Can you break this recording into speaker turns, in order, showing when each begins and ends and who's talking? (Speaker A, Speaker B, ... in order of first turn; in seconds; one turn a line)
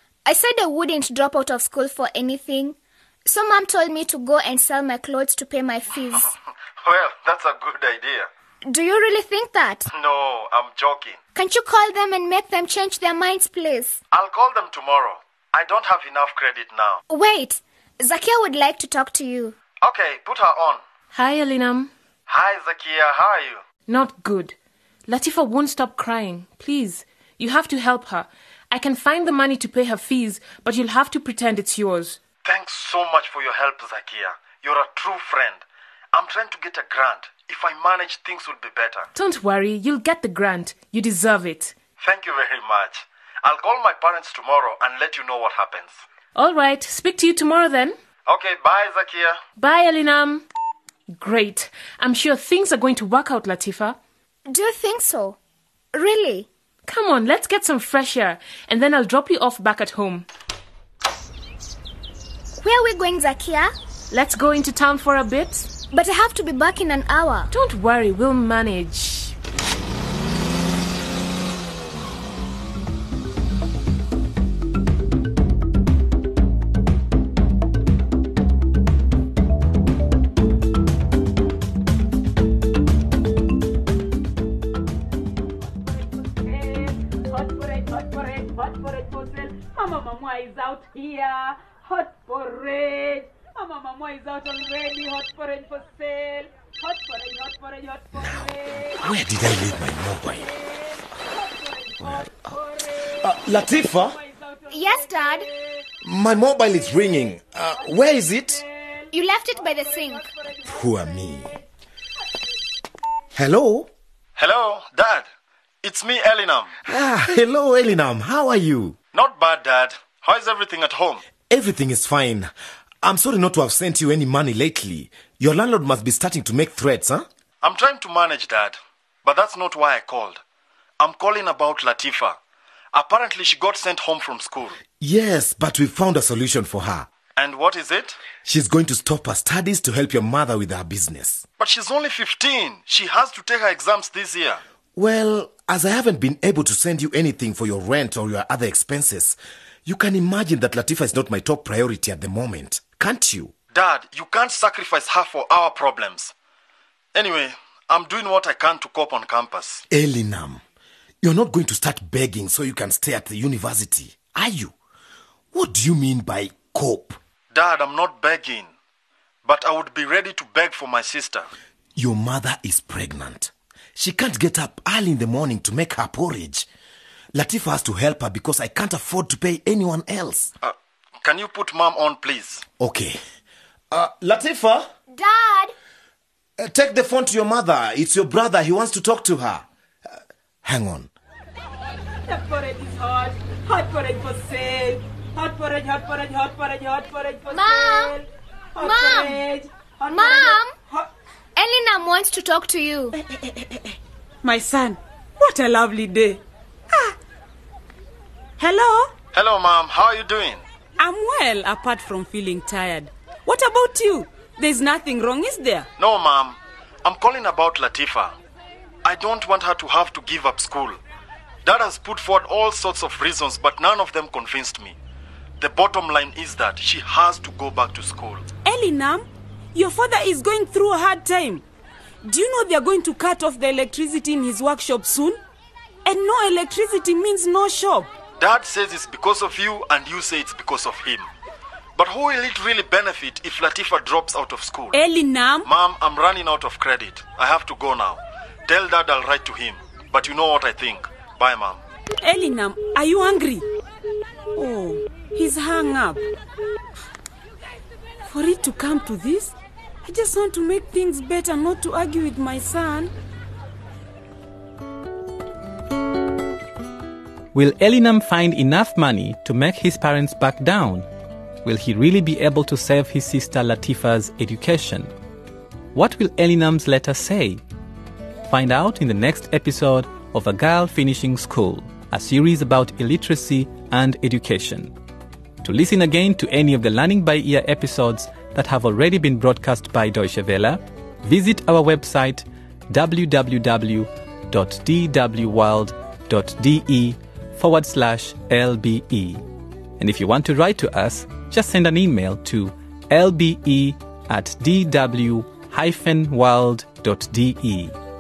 Speaker A: 0.2-6.3
Speaker B: 6.1-8.3
Speaker A: 8.7-9.9
Speaker B: 9.9-11.2
Speaker A: 11.3-14.0
Speaker B: 14.1-17.0
Speaker A: 17.1-19.6
Speaker B: 19.8-20.8
Speaker C: 21.1-21.9
Speaker B: 22.3-23.6
Speaker C: 23.9-24.6
Speaker C: 25.1-32.2
Speaker B: 32.4-39.1
Speaker C: 39.1-41.8
Speaker B: 42.0-46.0
Speaker C: 46.4-48.0
Speaker B: 48.3-49.4
Speaker C: 49.6-50.4
Speaker C: 51.1-54.0
Speaker A: 54.5-55.4
Speaker A: 55.9-56.5
Speaker C: 56.9-60.3
Speaker A: 62.6-63.7
Speaker C: 64.1-65.7
Speaker A: 65.9-67.5
Speaker C: 67.5-69.3
Speaker D: 85.9-98.9
Speaker E: 98.2-100.5
Speaker D: 101.6-102.1
Speaker E: 102.0-102.5
Speaker E: 103.2-104.2
Speaker A: 104.7-105.5
Speaker E: 106.0-108.6
Speaker A: 109.1-110.3
Speaker E: 110.6-111.6
Speaker E: 113.3-113.9
Speaker B: 114.4-115.3
Speaker B: 115.8-116.7
Speaker E: 116.8-119.0
Speaker B: 119.1-121.2
Speaker E: 121.5-122.5
Speaker E: 123.0-127.3
Speaker B: 127.6-130.4
Speaker B: 131.0-132.4
Speaker B: 132.9-134.8
Speaker E: 135.0-137.1
Speaker B: 137.4-138.2
Speaker E: 138.4-141.5
Speaker B: 141.6-144.6
Speaker E: 145.0-153.5
Speaker B: 153.7-156.3
Speaker B: 157.1-159.8
Speaker E: 159.9-160.6
Speaker E: 161.2-164.7
Speaker E: 165.5-167.2
Speaker B: 167.5-168.7
Speaker B: 169.4-171.5
Speaker E: 172.0-176.7
Speaker E: 177.3-180.5
Speaker B: 180.6-182.6
Speaker E: 182.8-183.2
Speaker E: 183.9-184.9
Speaker A: 185.1-185.7
Speaker E: 186.6-189.7
Speaker E: 190.6-191.1
Speaker D: 192.2-198.2
Speaker A: 197.5-198.2
Speaker D: 198.8-201.1
Speaker A: 198.8-199.4
Speaker A: 200.1-200.8
Speaker A: 201.6-203.2
Speaker D: 203.5-203.9
Speaker D: 204.4-206.4
Speaker D: 208.6-209.1
Speaker B: 209.3-210.6
Speaker D: 211.0-215.9
Speaker B: 216.0-218.3
Speaker B: 219.0-221.0
Speaker B: 221.7-225.0
Speaker B: 225.6-228.4
Speaker D: 228.7-231.6
Speaker D: 232.2-235.4
Speaker D: 236.1-238.1
Speaker B: 238.4-241.3
Speaker B: 242.0-245.0
Speaker D: 244.9-245.7
Speaker B: 245.6-251.8
Speaker D: 252.2-253.7
Speaker D: 254.6-256.2
Speaker D: 258.3-259.5
Speaker D: 260.1-263.1
Speaker F: 267.5-271.1
Speaker F: 271.6-275.1
Speaker F: 275.9-277.6
Speaker F: 278.5-284.9
Speaker F: 285.6-299.4
Speaker F: 300.0-308.0